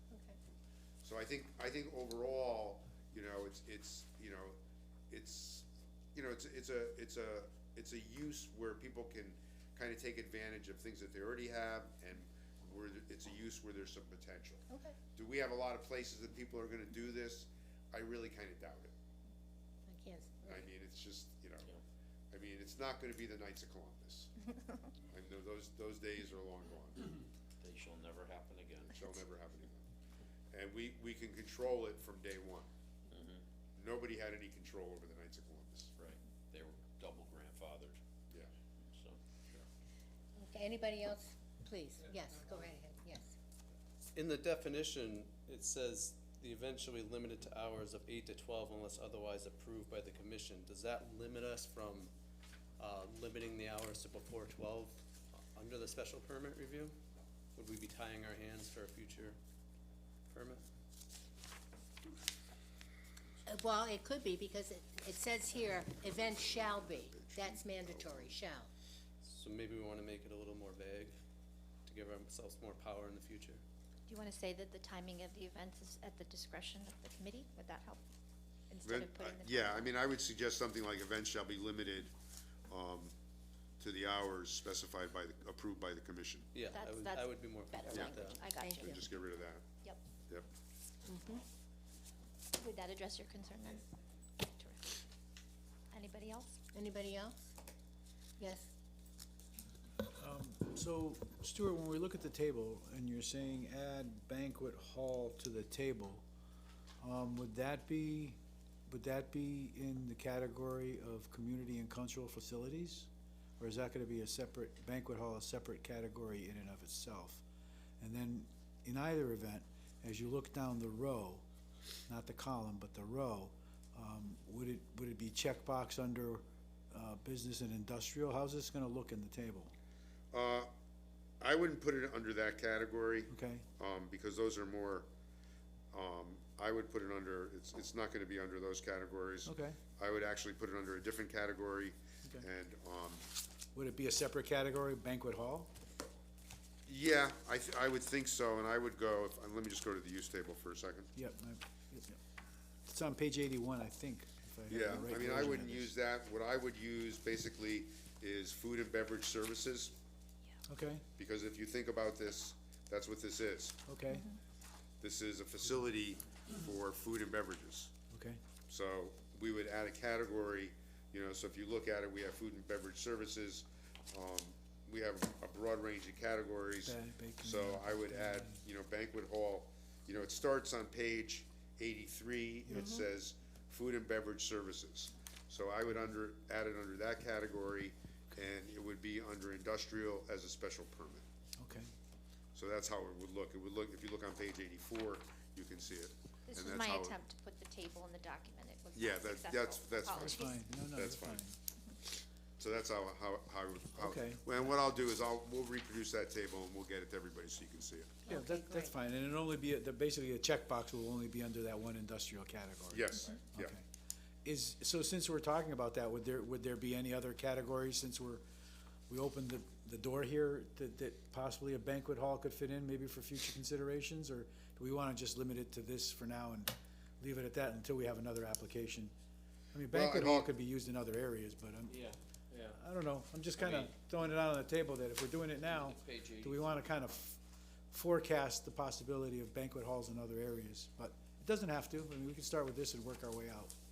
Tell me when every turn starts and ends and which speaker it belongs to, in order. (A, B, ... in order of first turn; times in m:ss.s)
0:00.1-0:00.4 A
0:01.0-0:04.6 B
0:05.1-0:18.9 B
0:19.9-0:20.7 A
0:20.4-0:21.7 B
0:22.3-0:24.3 B
0:25.0-0:27.1 B
0:27.6-0:29.1 C
0:29.0-0:29.8 B
0:30.5-0:32.7 B
0:33.1-0:33.4 C
0:33.8-0:35.9 B
0:36.0-0:38.0 C
0:38.9-0:39.2 C
0:40.4-0:43.3 A
0:44.1-0:52.1 D
0:52.8-0:57.0 D
0:57.6-0:59.4 D
1:00.3-1:00.6 D
1:03.4-1:08.7 A
1:05.9-1:08.4 B
1:09.2-1:11.1 D
1:11.8-1:13.6 D
1:14.1-1:18.0 E
1:18.7-1:20.0 E
1:18.8-1:22.1 B
1:22.7-1:23.1 B
1:23.8-1:26.5 B
1:26.5-1:28.5 D
1:26.7-1:29.1 E
1:27.9-1:29.6 B
1:28.6-1:29.0 A
1:31.0-1:31.4 A
1:32.6-1:33.8 E
1:34.4-1:35.0 E
1:35.9-1:36.6 E
1:36.7-1:37.5 A
1:38.4-1:38.7 A
1:40.1-1:46.2 F
1:47.0-1:53.1 F
1:53.6-1:57.4 F
1:58.0-2:01.4 F
2:02.1-2:09.7 F
2:10.3-2:10.7 B
2:11.4-2:15.1 B
2:13.3-2:13.6 F
2:15.9-2:23.2 B
2:19.4-2:19.8 F
2:23.7-2:25.7 F
2:26.8-2:31.1 B
2:31.2-2:32.2 F
2:32.8-2:35.9 F
2:34.7-2:40.0 B
2:40.7-2:41.0 F
2:41.2-2:43.8 B
2:43.9-2:44.2 F
2:45.0-2:47.9 B
2:48.1-2:48.4 F
2:48.7-3:11.2 B
2:56.8-2:58.6 F
3:02.7-3:03.0 F
3:11.6-3:11.9 F
3:12.5-3:17.2 B
3:16.5-3:20.6 E
3:18.9-3:21.4 B
3:20.3-3:21.6 F
3:22.6-3:28.3 B
3:24.0-3:24.8 F
3:28.2-3:28.9 A
3:28.3-3:33.8 F
3:32.9-3:33.8 B
3:34.4-3:38.4 F
3:39.1-3:49.1 F
3:49.7-3:52.0 F
3:49.9-3:50.5 B
3:51.9-3:52.8 C
3:52.7-4:03.7 F
3:53.6-3:53.9 C
3:55.6-3:56.8 C